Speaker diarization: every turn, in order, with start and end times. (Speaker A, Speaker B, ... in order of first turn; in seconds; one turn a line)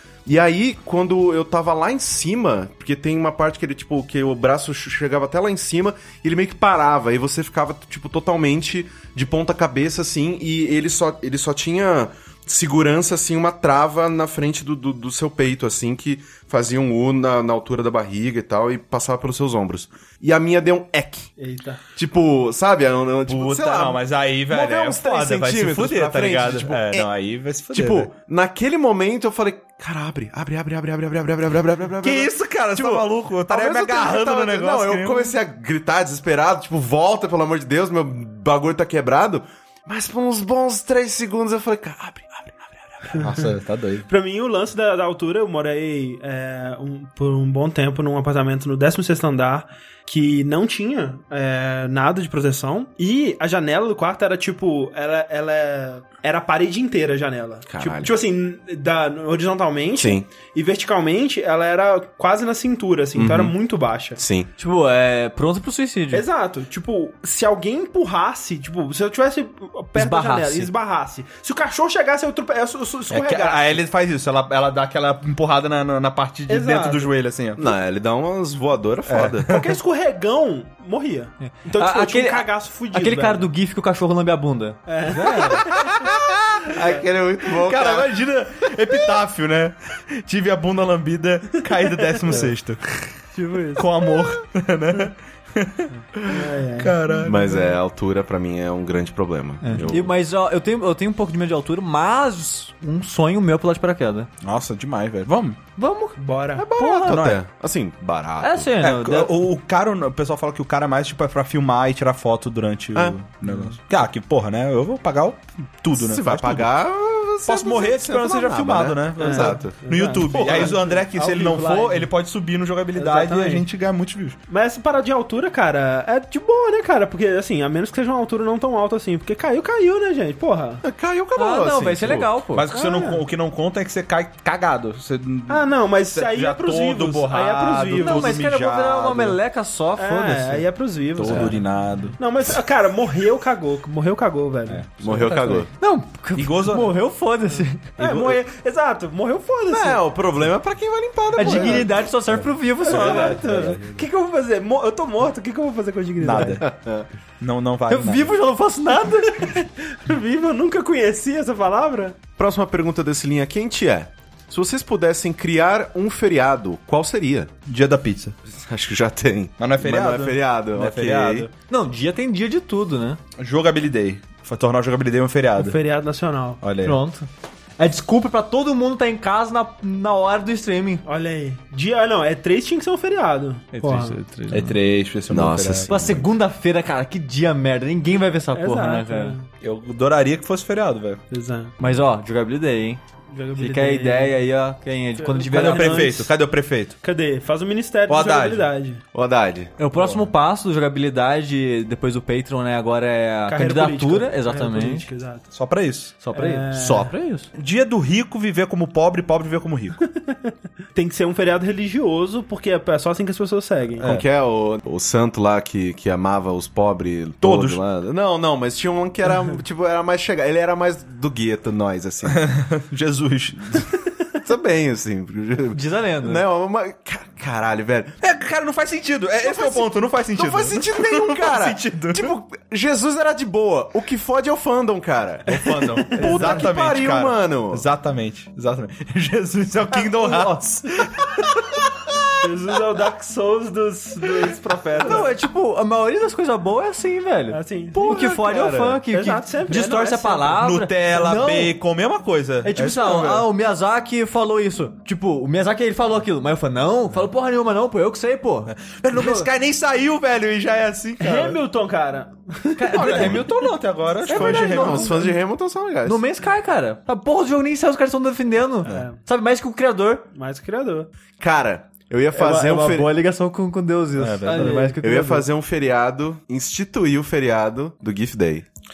Speaker A: 0.3-21.3
Speaker B: 21.4-21.8
Speaker A: 22.0-27.1
Speaker C: 23.3-28.1
Speaker A: 27.7-43.2
Speaker C: 32.0-35.3
Speaker B: 43.1-43.5
Speaker C: 43.2-44.1
Speaker B: 44.1-64.2
Speaker A: 57.7-58.2
Speaker A: 60.0-60.3
Speaker A: 63.2-63.5
Speaker A: 64.2-64.5
Speaker D: 64.6-66.3
Speaker B: 66.1-73.8
Speaker D: 70.0-70.7
Speaker C: 73.1-77.7
Speaker B: 76.5-77.1
Speaker A: 77.6-79.5
Speaker C: 79.1-79.7
Speaker B: 79.5-83.5
Speaker D: 81.4-85.7
Speaker B: 84.9-86.0
Speaker C: 85.4-86.7
Speaker A: 86.7-88.1
Speaker C: 87.5-93.1
Speaker B: 92.2-92.5
Speaker B: 93.3-93.9
Speaker C: 93.8-97.7
Speaker B: 96.3-97.0
Speaker A: 97.2-100.1
Speaker D: 99.6-104.3
Speaker C: 104.4-105.6
Speaker D: 105.8-107.2
Speaker B: 106.2-106.7
Speaker A: 106.6-108.7
Speaker C: 107.0-107.4
Speaker D: 108.4-109.3
Speaker C: 108.8-116.7
Speaker A: 116.0-119.8
Speaker C: 117.5-124.4
Speaker B: 119.2-122.1
Speaker B: 123.0-123.7
Speaker B: 124.5-130.8
Speaker A: 130.8-132.3
Speaker D: 131.4-132.7
Speaker C: 132.5-139.4
Speaker B: 132.7-133.2
Speaker B: 135.5-138.4
Speaker D: 137.9-140.7
Speaker B: 140.0-141.6
Speaker C: 141.2-142.2
Speaker A: 141.3-141.5
Speaker B: 142.2-145.6
Speaker C: 144.7-145.4
Speaker A: 145.0-145.7
Speaker D: 145.3-148.0
Speaker C: 146.3-146.9
Speaker B: 148.0-150.0
Speaker C: 148.0-148.4
Speaker A: 149.7-151.9
Speaker D: 151.4-153.4
Speaker B: 151.4-151.8
Speaker C: 152.3-154.1
Speaker B: 152.8-156.6
Speaker C: 156.2-156.6
Speaker C: 157.4-158.3
Speaker D: 157.9-159.5
Speaker B: 159.3-162.2
Speaker A: 162.4-167.5
Speaker C: 167.7-168.3
Speaker A: 168.5-171.5
Speaker C: 169.6-171.5
Speaker D: 171.7-173.2
Speaker C: 173.4-175.8
Speaker B: 175.6-176.6
Speaker C: 176.6-177.0
Speaker D: 176.8-177.3
Speaker D: 177.8-181.0
Speaker B: 181.1-184.2
Speaker D: 183.7-184.8
Speaker C: 184.5-186.2
Speaker A: 185.3-186.2
Speaker D: 185.9-189.4
Speaker B: 188.6-189.5
Speaker C: 189.6-191.2
Speaker B: 191.3-191.7
Speaker D: 191.8-193.0
Speaker B: 193.3-194.3
Speaker D: 193.6-196.2
Speaker B: 195.2-196.3
Speaker C: 195.5-196.9
Speaker B: 197.0-199.0
Speaker C: 198.1-198.7
Speaker A: 199.1-199.7
Speaker D: 199.8-205.1
Speaker C: 199.9-200.3
Speaker B: 203.5-205.4
Speaker C: 205.5-206.1
Speaker D: 206.2-207.5
Speaker B: 206.3-207.1
Speaker C: 207.6-210.0
Speaker B: 210.9-214.1
Speaker C: 214.0-214.2
Speaker A: 214.0-222.4
Speaker C: 217.4-217.8
Speaker C: 222.3-223.9
Speaker A: 224.4-228.2
Speaker D: 225.7-226.4
Speaker C: 228.2-232.3
Speaker A: 229.4-235.5
Speaker C: 235.5-241.9
Speaker B: 235.5-236.7
Speaker A: 236.1-237.8
Speaker B: 242.4-245.3
Speaker D: 245.0-251.7
Speaker B: 247.5-250.6
Speaker C: 248.0-248.3
Speaker C: 250.6-253.5
Speaker D: 252.6-259.5
Speaker C: 258.7-261.6
Speaker B: 261.2-263.5
Speaker D: 262.8-263.6
Speaker C: 262.9-265.4
Speaker A: 264.2-266.2
Speaker D: 264.3-265.1
Speaker B: 264.5-264.8
Speaker D: 266.1-270.2
Speaker B: 268.9-269.2
Speaker B: 270.3-271.1
Speaker A: 271.4-273.1
Speaker D: 272.3-275.4
Speaker C: 274.2-274.8
Speaker B: 274.4-275.0
Speaker A: 275.0-278.7